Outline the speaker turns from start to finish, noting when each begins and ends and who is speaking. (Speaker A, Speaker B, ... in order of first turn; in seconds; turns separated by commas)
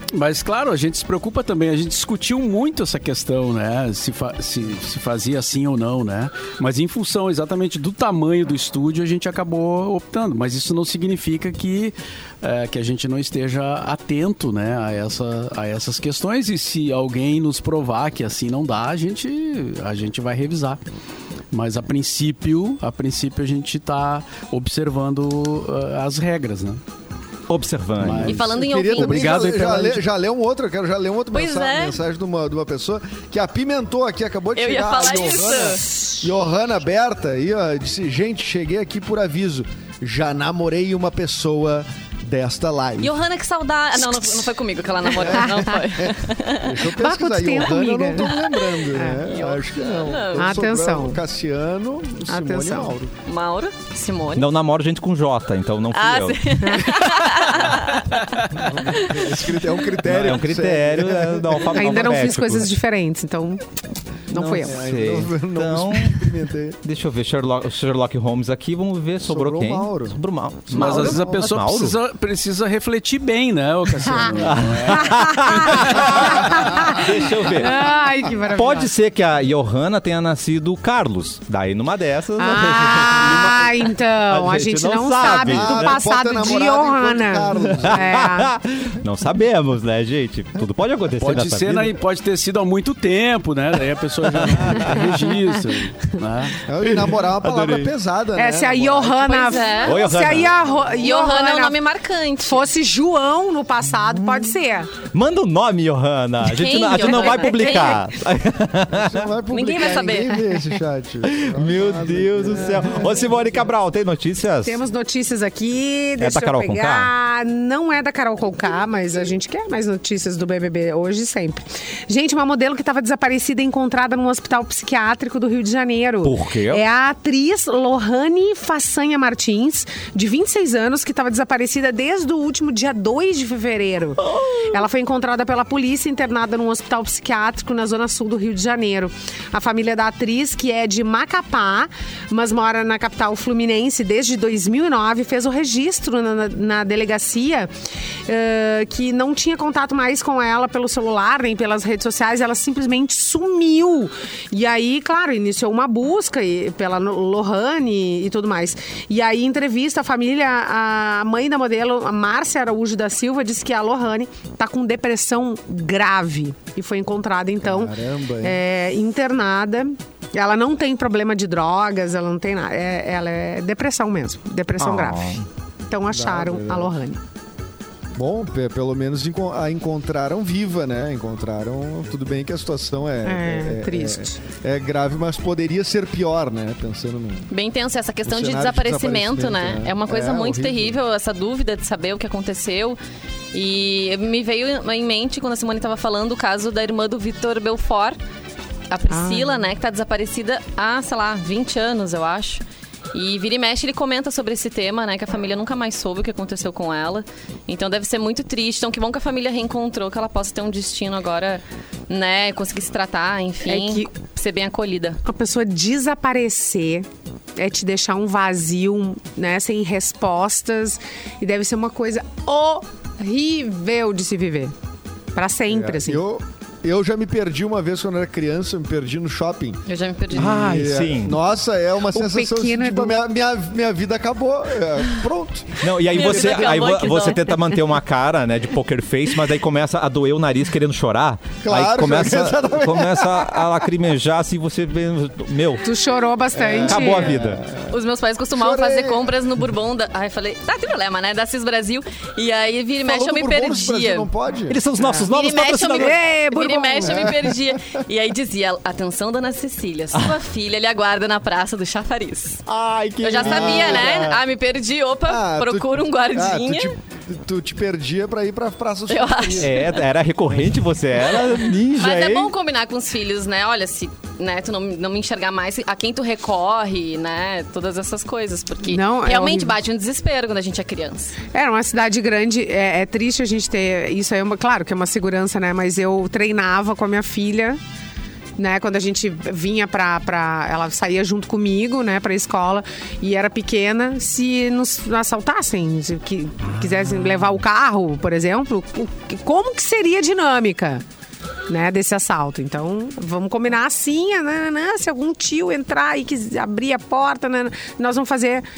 Speaker A: 0.1-20.8, Speaker A: 21.5-26.8, Speaker B: 27.5-28.4, Speaker A: 28.0-30.0, Speaker C: 28.2-29.6, Speaker D: 28.3-43.1, Speaker C: 31.3-32.0, Speaker C: 34.6-35.9, Speaker E: 35.9-36.1, Speaker C: 43.0-46.9, Speaker D: 45.1-53.1, Speaker E: 47.0-48.3, Speaker C: 48.2-50.6, Speaker E: 48.9-49.2, Speaker E: 50.4-51.2, Speaker E: 52.3-52.9, Speaker C: 53.3-54.5, Speaker B: 54.4-57.7, Speaker C: 55.9-58.1, Speaker A: 58.1-58.5, Speaker D: 58.5-62.1, Speaker C: 58.9-59.2, Speaker B: 60.0-62.7, Speaker E: 61.7-63.6, Speaker E: 64.3-64.8, Speaker B: 64.3-66.2, Speaker D: 64.5-66.8, Speaker B: 66.8-72.0, Speaker D: 69.2-70.2, Speaker A: 70.7-76.5, Speaker D: 70.7-71.3, Speaker E: 74.0-74.3, Speaker B: 74.4-86.0, Speaker E: 74.9-78.9, Speaker E: 82.4-88.5, Speaker D: 85.4-88.1, Speaker B: 87.6-91.9, Speaker A: 91.2-96.7, Speaker B: 94.3-95.2, Speaker D: 96.6-99.5, Speaker B: 97.4-97.9, Speaker E: 98.4-101.8, Speaker C: 99.2-100.1, Speaker B: 99.8-100.5, Speaker C: 101.0-102.7, Speaker E: 102.4-104.9, Speaker B: 105.1-109.3, Speaker C: 106.4-108.0, Speaker E: 107.2-107.9, Speaker D: 108.9-113.5, Speaker C: 109.5-110.4, Speaker B: 111.3-114.8, Speaker E: 114.6-147.7, Speaker B: 116.2-117.1, Speaker B: 126.2-126.8, Speaker B: 134.2-134.8, Speaker E: 148.3-177.2, Speaker D: 167.6-168.6, Speaker B: 174.8-175.4, Speaker D: 176.1-176.9, Speaker D: 178.1-187.5, Speaker E: 183.2-184.4, Speaker C: 187.5-193.0, Speaker D: 188.2-191.0, Speaker C: 193.5-198.2, Speaker C: 198.9-202.6, Speaker E: 199.1-199.7, Speaker C: 203.1-215.2, Speaker E: 213.6-214.1, Speaker E: 215.2-224.7, Speaker E: 225.3-226.2, Speaker D: 225.7-236.8, Speaker C: 229.9-230.7, Speaker B: 230.3-231.4, Speaker E: 232.1-233.2, Speaker B: 235.8-245.9, Speaker C: 236.1-237.7, Speaker D: 241.6-243.8, Speaker E: 245.8-247.4, Speaker D: 246.5-247.9, Speaker B: 246.9-247.6, Speaker C: 247.9-254.3, Speaker D: 248.5-249.3, Speaker D: 253.0-254.8, Speaker B: 254.7-256.2, Speaker E: 255.0-255.3, Speaker C: 255.2-262.6, Speaker E: 255.8-257.4, Speaker D: 257.0-257.8, Speaker B: 262.7-264.4, Speaker D: 263.2-264.3, Speaker C: 263.2-266.9, Speaker D: 265.3-269.9, Speaker C: 269.1-270.0, Speaker B: 269.6-272.5, Speaker C: 271.9-281.3, Speaker E: 278.9-279.7, Speaker E: 281.5-287.8, Speaker E: 288.6-301.0, Speaker B: 296.7-297.4, Speaker E: 301.7-308.6